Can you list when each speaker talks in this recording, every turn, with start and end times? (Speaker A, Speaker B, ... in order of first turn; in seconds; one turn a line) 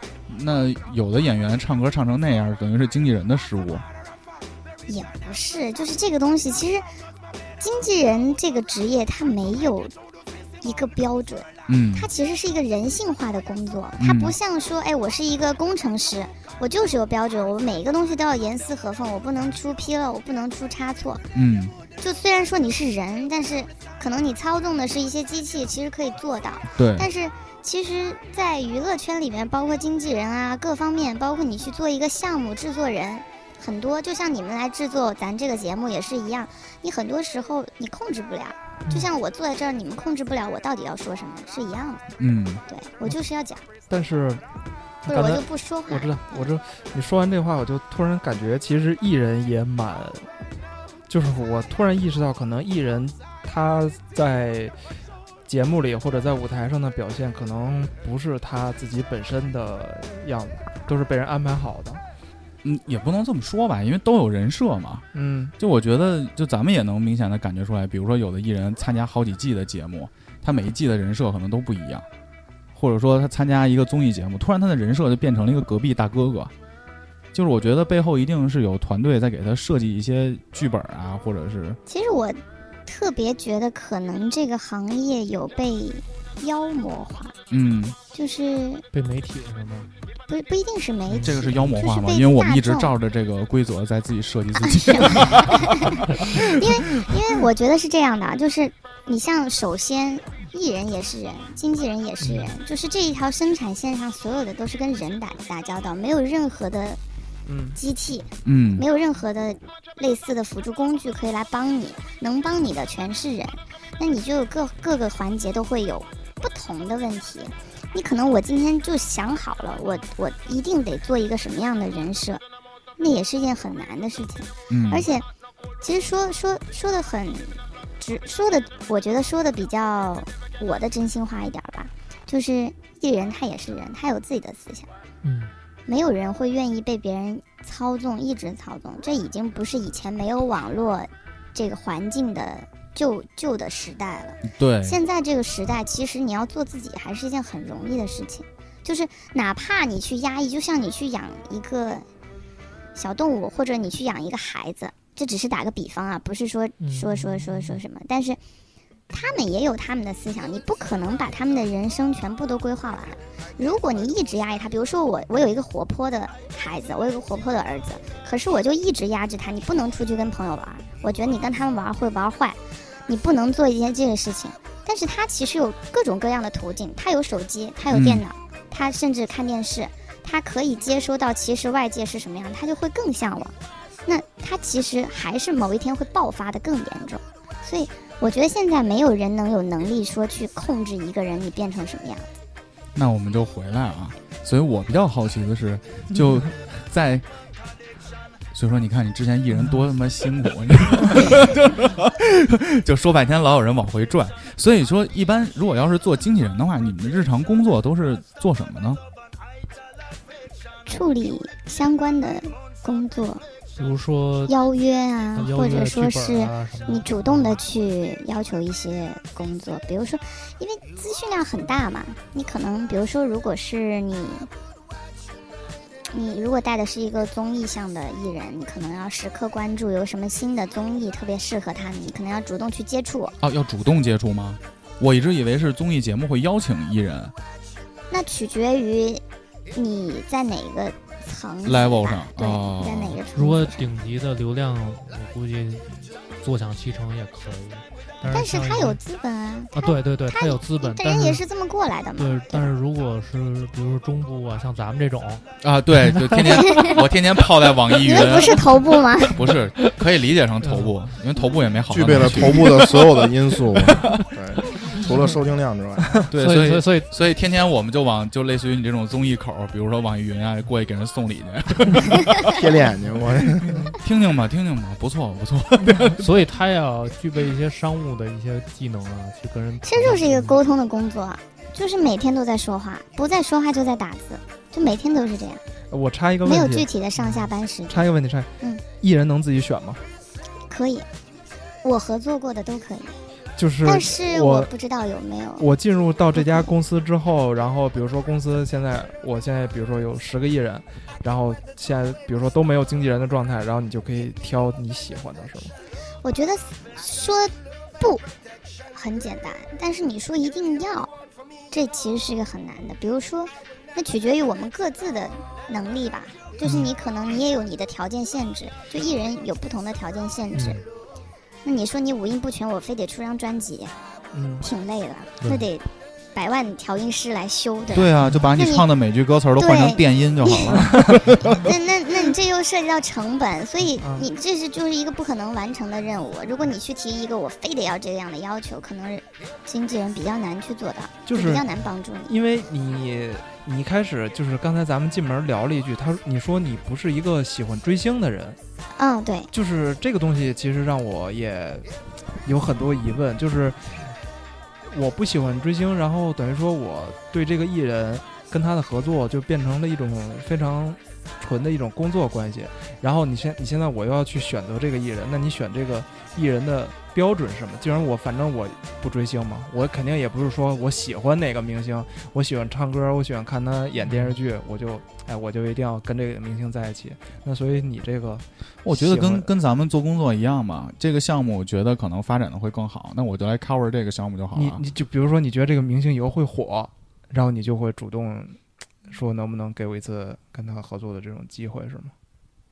Speaker A: 0.3-3.8
Speaker B: 4.9-6.8
Speaker B: 7.6-9.9
Speaker B: 10.6-21.2
Speaker A: 11.7-12.1
Speaker A: 14.0-14.3
Speaker A: 21.3-21.7
Speaker B: 22.0-42.0
Speaker A: 26.7-27.1
Speaker A: 42.2-42.6
Speaker B: 42.7-43.6
Speaker C: 43.9-44.4
Speaker C: 45.0-50.3
Speaker B: 45.1-46.1
Speaker C: 51.1-54.7
Speaker C: 55.5-62.0
Speaker A: 62.6-65.0
Speaker C: 65.1-65.5
Speaker A: 65.6-72.0
Speaker A: 72.7-76.5
Speaker A: 77.3-81.8
Speaker B: 81.9-87.3
Speaker A: 87.5-88.0
Speaker B: 88.1-88.8
Speaker D: 88.9-89.9
Speaker B: 90.3-92.9
Speaker D: 91.1-91.6
Speaker A: 91.2-96.6
Speaker B: 94.6-107.0
Speaker C: 107.5-107.8
Speaker B: 107.8-122.4
Speaker A: 108.4-108.8
Speaker B: 123.0-125.2
Speaker A: 124.7-125.1
Speaker B: 125.8-134.9
Speaker D: 135.2-135.5
Speaker B: 135.9-152.1
Speaker A: 144.4-145.0
Speaker B: 152.9-158.4
Speaker D: 156.8-157.8
Speaker B: 159.1-183.5
Speaker A: 177.9-178.2
Speaker B: 184.1-192.3
Speaker A: 192.9-197.2
Speaker A: 198.5-209.0
Speaker B: 210.9-213.4
Speaker D: 213.8-214.5
Speaker B: 214.5-224.5
Speaker D: 215.3-217.6
Speaker B: 226.1-233.3
Speaker A: 233.4-237.3
Speaker B: 238.1-239.2
Speaker B: 239.7-243.9
Speaker A: 241.6-243.2
Speaker D: 243.3-249.0
Speaker B: 248.2-252.7
Speaker D: 249.7-251.4
Speaker D: 252.2-255.4
Speaker A: 255.6-258.7
Speaker D: 255.9-256.4
Speaker B: 256.5-257.0
Speaker B: 258.0-259.4
Speaker A: 259.2-262.9
Speaker D: 260.6-261.0
Speaker E: 261.9-266.2
Speaker A: 266.3-272.4
Speaker D: 266.4-267.1
Speaker E: 272.4-273.8
Speaker A: 274.0-276.4
Speaker D: 276.1-280.6
Speaker B: 279.8-285.6
Speaker C: 285.9-286.9
Speaker B: 286.4-288.1
Speaker C: 287.9-290.0
Speaker B: 290.7-291.1
Speaker B: 291.8-293.2
Speaker C: 293.6-294.7
Speaker B: 293.8-295.7
Speaker C: 295.6-305.7
Speaker B: 306.2-308.2
Speaker B: 308.9-311.1
Speaker B: 311.7-320.8
Speaker D: 320.5-320.8
Speaker B: 321.6-323.9
Speaker C: 324.3-324.6
Speaker B: 324.6-328.9
Speaker A: 327.9-331.6
Speaker B: 329.6-330.8
Speaker C: 330.8-331.2
Speaker B: 331.4-342.4
Speaker C: 334.0-334.3
Speaker C: 341.2-341.6
Speaker C: 342.3-348.6
Speaker B: 349.0-349.5
Speaker C: 349.5-351.9
Speaker C: 352.4-354.0
Speaker C: 354.9-379.5
Speaker A: 378.8-384.8
Speaker C: 384.5-388.6
Speaker C: 389.1-392.1